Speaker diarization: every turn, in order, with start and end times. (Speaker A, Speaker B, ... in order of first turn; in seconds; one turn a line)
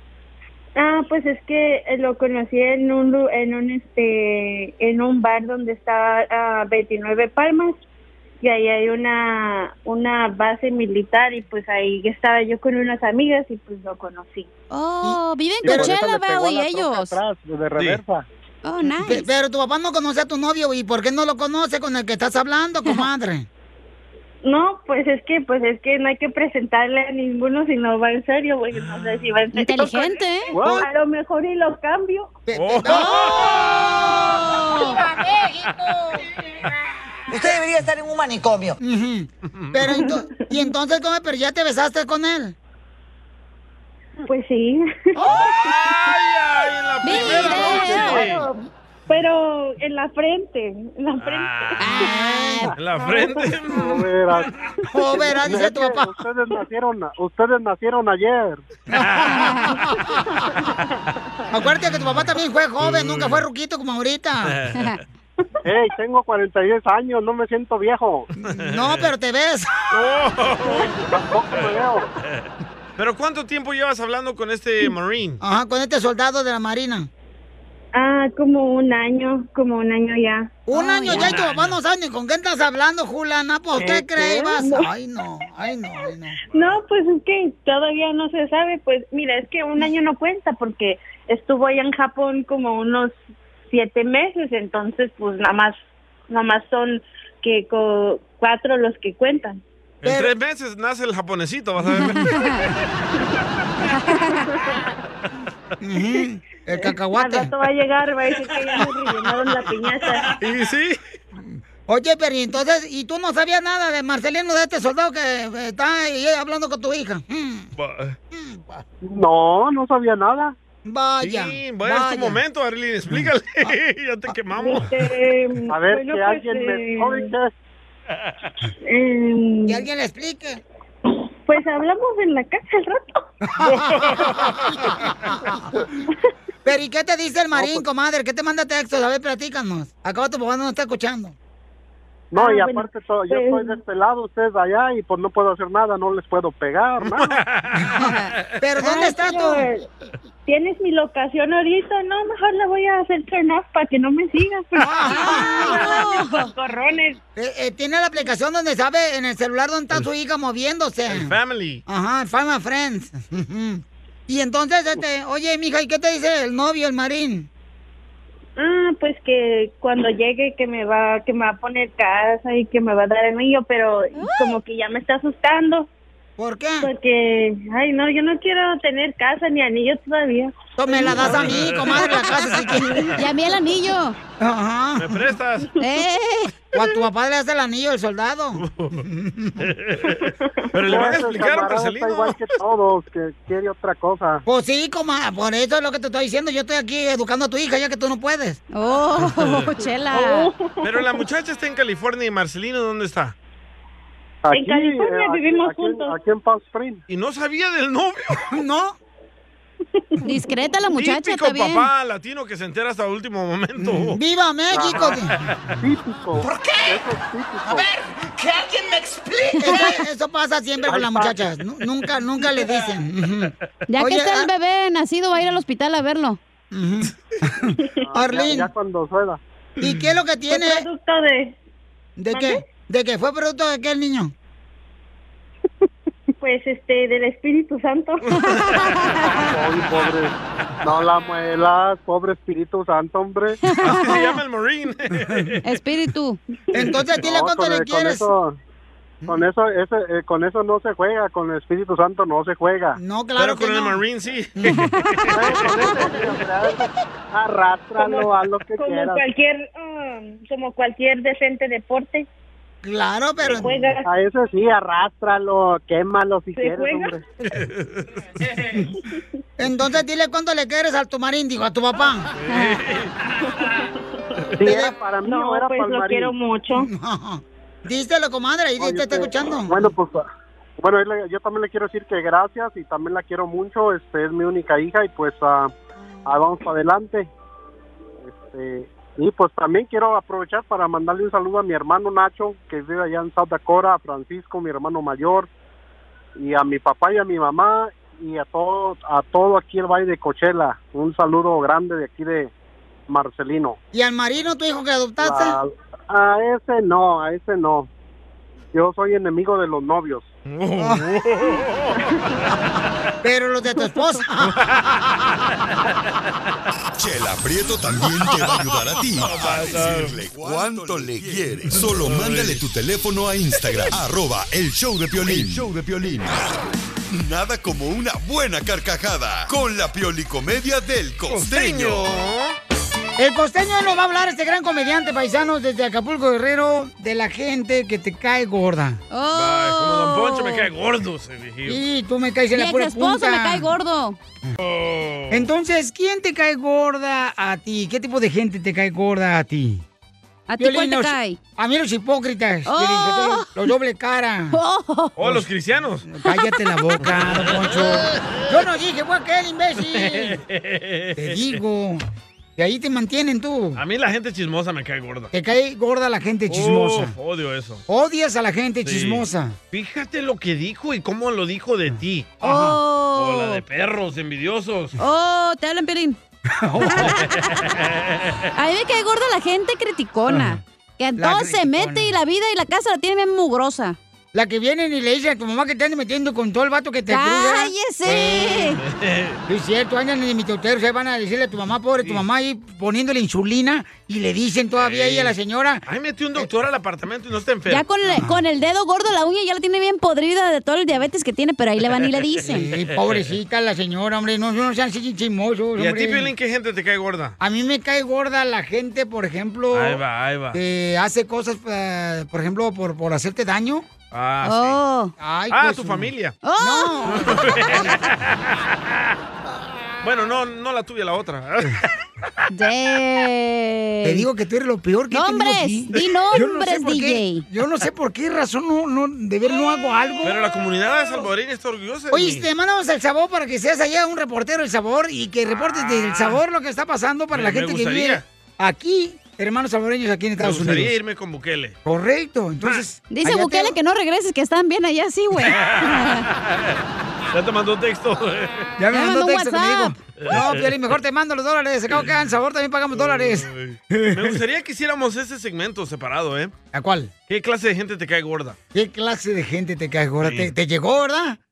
Speaker A: 0.8-7.8
Speaker A: 8.4-14.5
Speaker B: 14.7-17.2
Speaker C: 15.0-16.0
Speaker D: 15.6-18.2
Speaker B: 18.6-19.3
Speaker C: 19.0-23.5
Speaker A: 24.4-30.2
Speaker B: 29.5-30.5
Speaker D: 30.5-30.8
Speaker A: 30.7-32.4
Speaker C: 32.5-36.7
Speaker E: 32.5-33.6
Speaker B: 32.8-35.0
Speaker C: 38.8-42.5
Speaker E: 39.5-39.9
Speaker A: 39.9-40.2
Speaker A: 44.2-45.2
Speaker E: 45.3-48.4
Speaker B: 47.0-48.3
Speaker D: 47.9-48.2
Speaker A: 47.9-51.6
Speaker E: 51.2-51.8
Speaker B: 51.8-52.7
Speaker C: 51.9-52.7
Speaker E: 52.8-54.1
Speaker D: 53.8-54.5
Speaker C: 54.9-56.1
Speaker D: 55.1-58.6
Speaker C: 58.9-60.1
Speaker E: 58.9-59.4
Speaker B: 59.2-59.7
Speaker C: 61.5-64.6
Speaker E: 62.8-63.4
Speaker E: 64.4-64.8
Speaker D: 65.7-68.3
Speaker C: 68.4-69.8
Speaker E: 68.5-69.1
Speaker E: 69.9-71.0
Speaker A: 70.7-71.0
Speaker D: 71.1-72.1
Speaker E: 71.5-75.4
Speaker C: 75.4-77.1
Speaker A: 77.9-80.5
Speaker C: 80.7-86.4
Speaker B: 80.7-81.4
Speaker E: 81.1-81.8
Speaker A: 83.8-84.9
Speaker A: 86.5-99.6
Speaker E: 100.0-102.4
Speaker C: 100.0-100.3
Speaker B: 102.0-102.6
Speaker B: 103.9-104.4
Speaker A: 104.2-104.9
Speaker C: 105.8-107.5
Speaker A: 107.1-110.3
Speaker E: 110.3-111.0
Speaker C: 111.4-117.7
Speaker E: 117.8-118.2
Speaker C: 118.3-118.6
Speaker D: 119.0-120.5
Speaker C: 120.8-122.4
Speaker E: 121.2-124.9
Speaker A: 124.6-127.3
Speaker D: 125.7-127.5
Speaker A: 128.8-129.8
Speaker C: 129.7-130.6
Speaker A: 131.4-133.2
Speaker C: 133.5-135.7
Speaker E: 133.6-135.1
Speaker C: 136.6-141.3
Speaker D: 137.5-137.8
Speaker D: 142.3-147.4
Speaker A: 142.4-143.8
Speaker E: 147.0-147.9
Speaker B: 148.0-148.3
Speaker C: 148.6-149.6
Speaker A: 148.8-149.9
Speaker A: 150.5-157.2
Speaker C: 154.8-155.7
Speaker B: 155.1-156.5
Speaker C: 157.3-161.3
Speaker E: 161.1-161.8
Speaker C: 161.9-167.5
Speaker A: 168.6-175.9
Speaker B: 174.1-174.6
Speaker C: 176.4-176.9
Speaker A: 176.8-181.2
Speaker C: 180.8-183.2
Speaker E: 181.1-182.0
Speaker B: 181.9-184.2
Speaker C: 184.4-185.2
Speaker E: 185.0-185.7
Speaker B: 185.8-186.5
Speaker C: 186.7-189.7
Speaker E: 188.6-189.0
Speaker E: 189.6-192.5
Speaker D: 190.8-194.4
Speaker C: 194.5-198.6
Speaker B: 198.7-200.5
Speaker A: 200.1-201.1
Speaker E: 200.8-203.3
Speaker D: 204.4-207.0
Speaker A: 204.5-206.1
Speaker E: 207.1-208.4
Speaker C: 208.5-209.0
Speaker A: 209.9-210.2
Speaker B: 210.2-211.9
Speaker E: 210.9-214.2
Speaker C: 213.8-215.3
Speaker D: 214.7-215.2
Speaker D: 215.8-217.9
Speaker B: 219.6-219.9
Speaker C: 219.6-224.5
Speaker D: 220.8-221.5
Speaker B: 223.9-226.4
Speaker C: 226.7-228.7
Speaker D: 228.0-229.4
Speaker C: 229.8-230.8
Speaker A: 230.5-231.6
Speaker C: 232.2-234.3
Speaker A: 232.3-232.6
Speaker A: 236.4-238.3
Speaker B: 238.4-239.4
Speaker D: 239.2-243.6
Speaker B: 243.6-244.3
Speaker E: 243.8-245.6
Speaker B: 245.6-246.4
Speaker C: 246.7-248.3
Speaker D: 247.2-248.6
Speaker D: 249.3-253.0
Speaker C: 253.0-254.0
Speaker E: 253.4-255.4
Speaker D: 255.3-259.2
Speaker A: 258.0-262.3
Speaker C: 262.8-263.7
Speaker A: 263.6-264.1
Speaker D: 264.1-267.2
Speaker A: 266.6-267.1
Speaker E: 267.5-268.3
Speaker C: 269.6-272.3
Speaker E: 272.4-273.1
Speaker B: 272.5-272.8
Speaker A: 273.4-274.0
Speaker D: 274.6-276.3
Speaker C: 274.6-274.9
Speaker A: 275.2-276.9
Speaker C: 276.8-279.8
Speaker D: 278.8-280.2
Speaker D: 280.8-285.7
Speaker D: 286.2-287.3
Speaker D: 288.2-295.5
Speaker D: 296.4-302.5
Speaker D: 303.1-303.8
Speaker C: 303.9-305.6
Speaker D: 305.2-307.9
Speaker D: 308.7-310.3
Speaker E: 310.5-312.1
Speaker C: 310.8-311.0
Speaker C: 313.2-314.6
Speaker A: 313.8-314.0
Speaker E: 314.6-315.0
Speaker F: 316.9-326.5
Speaker E: 319.2-320.2
Speaker E: 321.2-322.6
Speaker E: 325.2-325.6
Speaker F: 327.1-332.1
Speaker E: 331.3-332.6
Speaker C: 333.2-339.0
Speaker B: 339.1-340.7
Speaker E: 339.3-341.8
Speaker C: 341.7-343.7
Speaker B: 342.6-344.2
Speaker E: 344.6-345.4
Speaker C: 345.3-349.8
Speaker B: 350.5-351.4
Speaker C: 350.6-354.6
Speaker B: 352.7-353.5
Speaker B: 354.5-355.1
Speaker E: 355.2-356.1
Speaker C: 356.1-360.4
Speaker E: 357.1-357.6
Speaker E: 359.9-361.6
Speaker C: 361.2-362.0
Speaker C: 362.6-363.8
Speaker E: 363.8-365.3
Speaker C: 365.3-367.1
Speaker E: 366.5-367.8
Speaker C: 367.9-369.6
Speaker E: 368.8-372.3
Speaker C: 372.4-372.8
Speaker B: 372.4-373.6
Speaker E: 373.2-375.0
Speaker B: 375.0-376.2
Speaker C: 376.5-377.2
Speaker B: 376.8-377.7
Speaker E: 377.8-378.3
Speaker B: 378.6-384.0
Speaker C: 380.3-380.6
Speaker C: 381.2-382.1
Speaker C: 384.3-388.8
Speaker B: 387.1-388.8
Speaker E: 388.8-389.4
Speaker C: 389.5-395.8
Speaker E: 394.8-395.3
Speaker E: 395.9-397.8
Speaker B: 397.7-402.7
Speaker C: 398.1-398.4
Speaker C: 402.4-406.3
Speaker E: 405.8-407.4
Speaker C: 407.4-410.0
Speaker E: 409.7-410.6
Speaker C: 410.5-413.9
Speaker E: 414.1-414.8
Speaker B: 414.4-415.1
Speaker C: 415.2-418.0
Speaker E: 415.5-416.4
Speaker B: 416.4-417.6
Speaker E: 417.1-418.9
Speaker E: 420.0-421.9
Speaker B: 422.5-424.2
Speaker C: 424.0-430.4
Speaker B: 425.1-427.4
Speaker E: 430.2-432.5
Speaker C: 432.1-440.9
Speaker E: 435.6-436.4
Speaker E: 437.3-438.2
Speaker E: 440.4-441.7
Speaker C: 441.8-443.8
Speaker B: 443.1-446.2
Speaker E: 445.5-446.7
Speaker E: 447.3-448.7
Speaker C: 448.8-454.4
Speaker B: 448.9-449.9
Speaker E: 450.2-450.8
Speaker E: 452.9-456.5
Speaker C: 456.7-457.1
Speaker E: 457.3-458.6
Speaker C: 458.7-461.4
Speaker E: 460.2-460.5